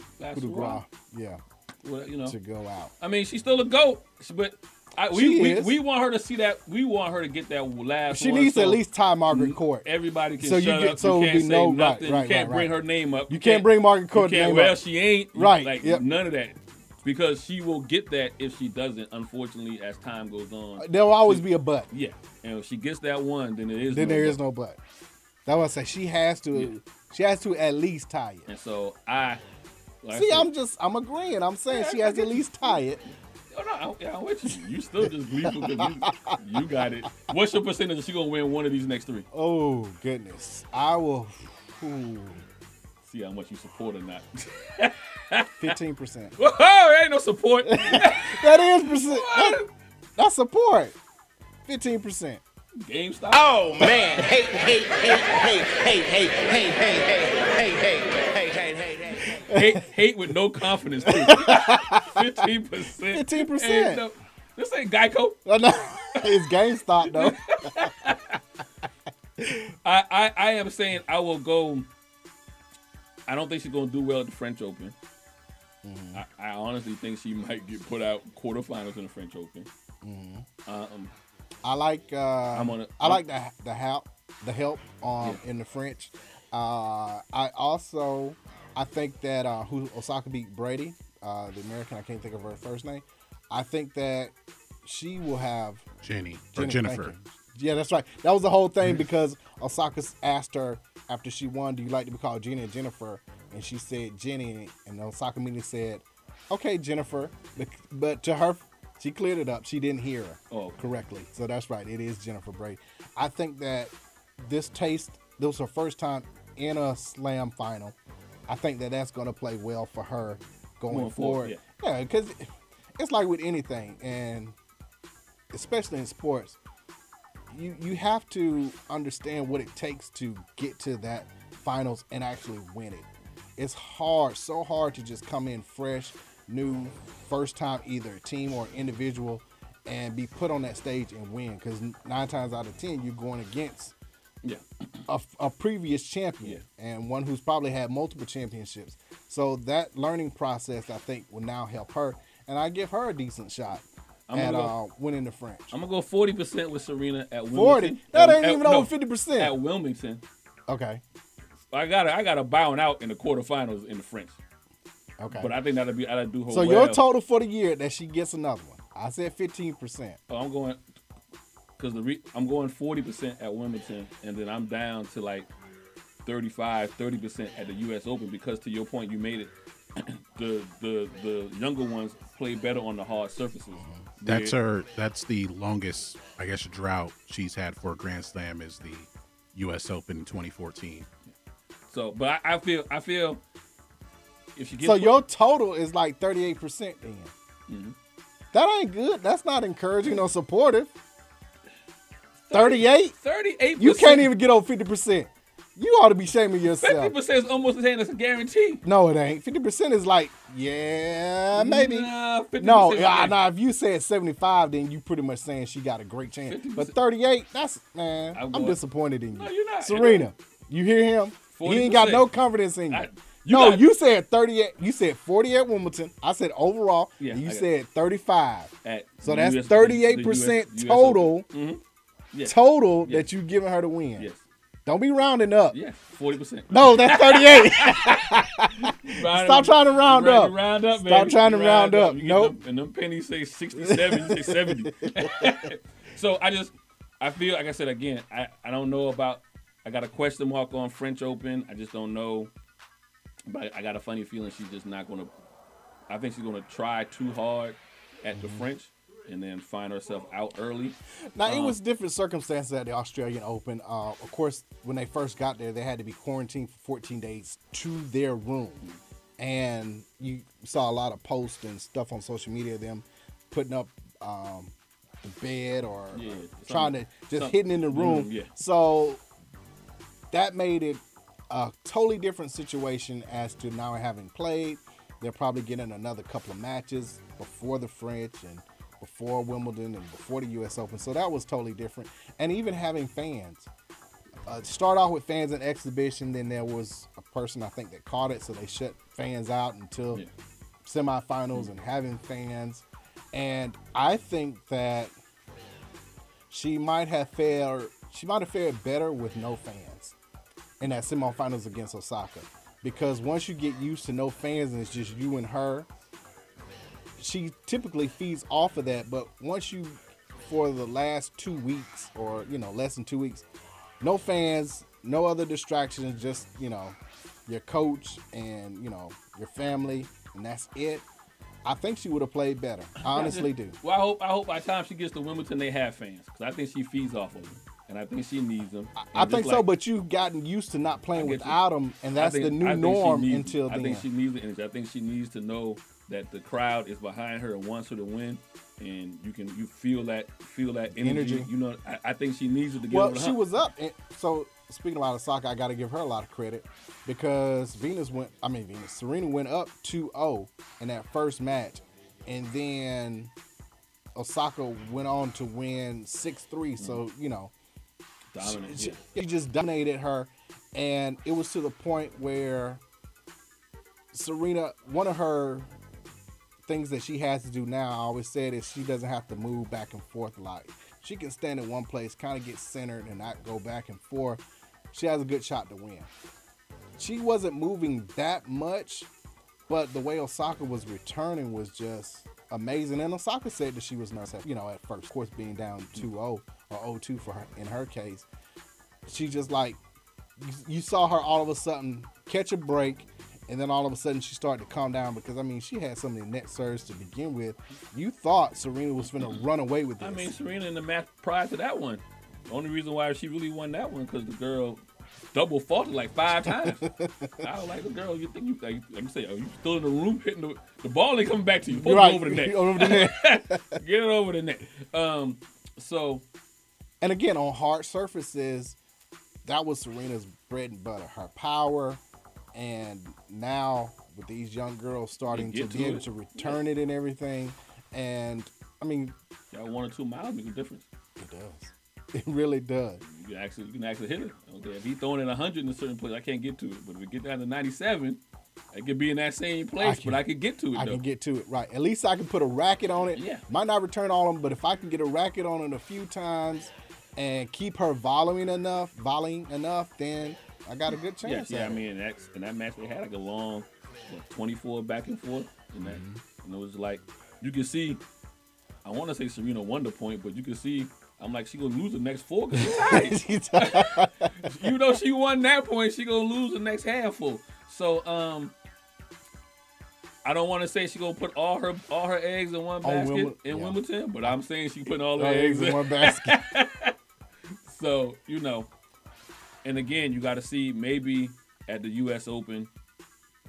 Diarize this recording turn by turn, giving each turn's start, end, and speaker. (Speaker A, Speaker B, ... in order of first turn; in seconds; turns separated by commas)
Speaker A: 0.2-0.8, Speaker B: 0.3-1.4, Speaker A: 1.8-2.4, Speaker B: 2.2-2.9, Speaker A: 3.0-24.4, Speaker B: 5.1-5.8, Speaker B: 8.1-9.9, Speaker B: 10.4-12.7, Speaker B: 13.3-14.8, Speaker B: 15.3-16.1, Speaker B: 20.8-21.9, Speaker B: 23.9-24.8, Speaker B: 25.4-28.5, Speaker A: 28.5-29.4, Speaker A: 30.0-30.5, Speaker B: 30.1-33.0, Speaker A: 31.7-32.8, Speaker A: 33.5-39.2, Speaker B: 35.4-36.3, Speaker B: 39.3-42.4, Speaker A: 43.0-45.7, Speaker B: 45.6-46.3, Speaker A: 46.4-49.7, Speaker B: 47.6-49.6, Speaker B: 50.2-51.0, Speaker B: 51.6-52.4, Speaker A: 52.8-53.5, Speaker C: 53.3-59.4, Speaker A: 59.5-65.4, Speaker B: 61.0-62.4, Speaker B: 63.1-64.0, Speaker B: 65.5-67.9, Speaker A: 67.1-68.4, Speaker A: 69.8-71.9, Speaker A: 73.3-74.9, Speaker B: 75.8-76.2, Speaker A: 76.1-79.7, Speaker B: 80.0-80.5, Speaker A: 80.7-81.1, Speaker B: 81.6-95.8, Speaker A: 82.5-83.2, Speaker D: 96.0-97.1, Speaker B: 96.5-118.0, Speaker A: 110.5-110.8, Speaker B: 118.5-124.5, Speaker A: 120.9-121.6, Speaker B: 125.5-126.6, Speaker B: 127.5-143.9, Speaker B: 145.1-155.7, Speaker A: 154.3-154.7, Speaker A: 155.7-160.2, Speaker B: 157.5-159.5, Speaker B: 160.7-161.0, Speaker A: 161.7-164.4, Speaker B: 165.2-165.5, Speaker A: 165.3-167.0, Speaker B: 166.5-170.2, Speaker A: 170.3-170.8, Speaker A: 171.8-175.5, Speaker A: 176.2-184.6, Speaker B: 183.8-184.0, Speaker D: 184.2-191.1, Speaker A: 191.9-193.4, Speaker A: 194.6-195.2, Speaker B: 194.8-197.3, Speaker A: 197.7-197.9, Speaker B: 198.5-200.9, Speaker A: 202.5-204.3, Speaker B: 202.5-203.1, Speaker B: 203.8-207.1, Speaker A: 206.8-208.8, Speaker B: 208.8-231.5, Speaker A: 211.5-213.4, Speaker A: 216.4-217.0, Speaker A: 218.3-218.8, Speaker A: 219.3-220.3, Speaker A: 221.5-222.3, Speaker A: 222.9-223.9, Speaker A: 227.2-227.7, Speaker A: 228.8-231.8, Speaker A: 232.3-233.3, Speaker B: 232.4-234.3, Speaker A: 234.2-234.4, Speaker B: 234.8-235.8, Speaker A: 235.7-252.5, Speaker B: 236.7-242.6, Speaker B: 243.8-245.7, Speaker A: 253.5-255.3, Speaker A: 256.1-261.8, Speaker B: 258.3-258.6, Speaker B: 261.3-268.8, Speaker B: 269.4-279.2, Speaker A: 276.1-278.5, Speaker B: 280.3-293.7, Speaker B: 294.4-300.2, Speaker B: 300.8-305.1, Speaker B: 306.5-310.1, Speaker B: 310.8-315.9, Speaker B: 317.2-323.4, Speaker B: 324.0-331.0, Speaker B: 331.6-333.8, Speaker A: 333.0-339.7, Speaker B: 338.9-344.1, Speaker A: 341.1-341.6, Speaker A: 342.1-353.4, Speaker B: 350.9-351.5, Speaker B: 352.9-363.3, Speaker B: 364.1-367.5, Speaker A: 368.3-369.0, Speaker B: 368.4-372.8, Speaker B: 374.1-375.7, Speaker B: 376.6-386.1, Speaker B: 387.0-389.1, Speaker B: 389.7-398.3, Speaker B: 399.1-399.8, Speaker B: 400.4-410.3, Speaker A: 410.0-414.8, Speaker A: 415.3-416.9, Speaker B: 416.4-417.4, Speaker A: 417.4-426.2, Speaker B: 421.7-423.8, Speaker B: 427.0-428.8, Speaker B: 429.4-432.0, Speaker B: 432.5-439.1, Speaker A: 435.3-436.6, Speaker A: 439.5-440.9, Speaker B: 441.2-443.0, Speaker A: 443.0-448.2, Speaker A: 448.7-451.0, Speaker B: 449.8-461.8, Speaker A: 453.1-453.4, Speaker A: 461.2-468.0, Speaker B: 465.8-466.2, Speaker A: 468.8-478.5, Speaker B: 472.5-474.4, Speaker A: 480.2-486.9, Speaker B: 482.8-483.8, Speaker B: 485.1-486.5, Speaker A: 487.6-488.7, Speaker A: 489.6-492.7